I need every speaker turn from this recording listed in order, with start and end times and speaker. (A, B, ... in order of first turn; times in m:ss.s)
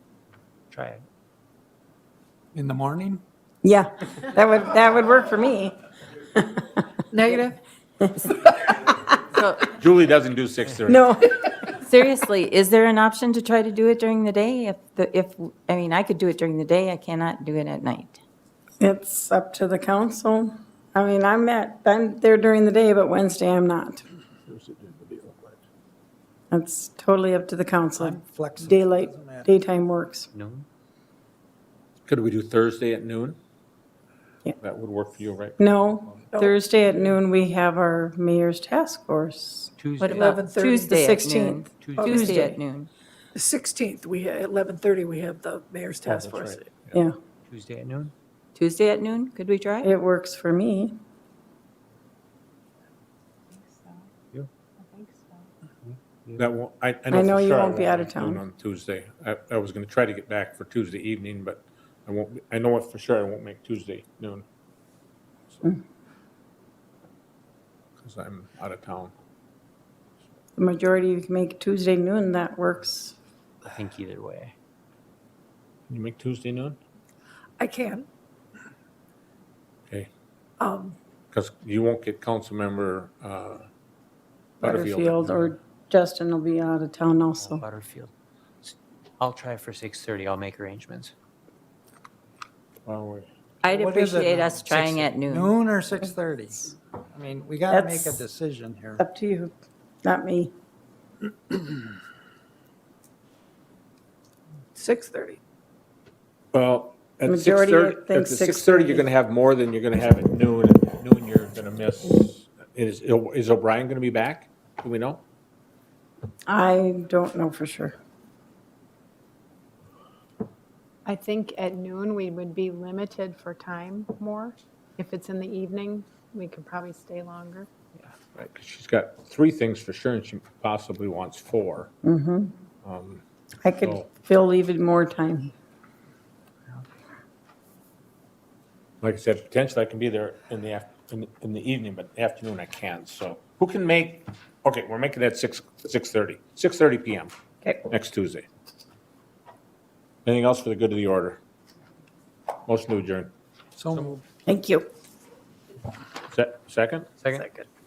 0:00.7-0:01.0 A
0:02.5-0:03.2 B
0:03.6-0:06.8 C
0:08.0-0:09.1 C
0:09.4-0:09.7 D
0:09.7-0:11.1 E
0:10.9-0:11.5 C
0:11.7-0:18.2 D
0:18.8-0:24.0 C
0:24.5-0:25.6 E
0:26.5-0:30.3 C
0:28.0-0:29.5 B
0:30.3-0:30.7 A
0:32.0-0:33.4 E
0:34.6-0:35.6 E
0:35.6-0:39.7 C
0:36.3-0:36.6 F
0:39.8-0:40.4 A
0:40.0-0:42.9 D
0:40.1-0:40.9 F
0:40.9-0:42.6 C
0:41.8-0:42.2 A
0:43.3-0:46.7 F
0:46.0-0:47.0 E
0:47.5-0:48.1 A
0:48.6-0:49.9 D
0:49.8-0:50.9 C
0:53.5-0:54.1 G
0:54.8-0:55.5 G
0:55.9-0:56.4 A
0:56.4-1:04.4 E
0:57.1-0:58.4 C
1:08.0-1:09.1 E
1:10.6-1:13.2 C
1:13.7-1:14.5 A
1:15.9-1:16.8 E
1:17.6-1:18.1 F
1:20.6-1:21.0 F
1:21.3-1:23.7 E
1:24.6-1:25.5 E
1:24.6-1:27.6 C
1:27.4-1:28.1 A
1:28.6-1:31.1 A
1:32.8-1:33.3 E
1:33.6-1:35.5 D
1:33.6-1:39.0 B
1:37.7-1:38.2 C
1:39.0-1:39.5 C
1:40.0-1:40.5 C
1:44.8-1:45.4 F
1:46.5-1:55.2 E
1:47.2-1:49.1 C
1:56.5-1:57.9 C
2:01.0-2:07.7 G
2:08.3-2:11.9 E
2:12.0-2:12.5 C
2:12.8-2:13.2 E
2:13.6-2:15.5 C
2:13.8-2:14.0 E
2:19.0-2:27.3 E
2:27.8-2:28.4 E
2:30.2-2:31.4 E
2:32.6-2:33.3 E
2:33.8-2:34.2 B
2:34.4-2:34.9 C
2:36.3-2:37.1 E
2:37.2-2:37.5 A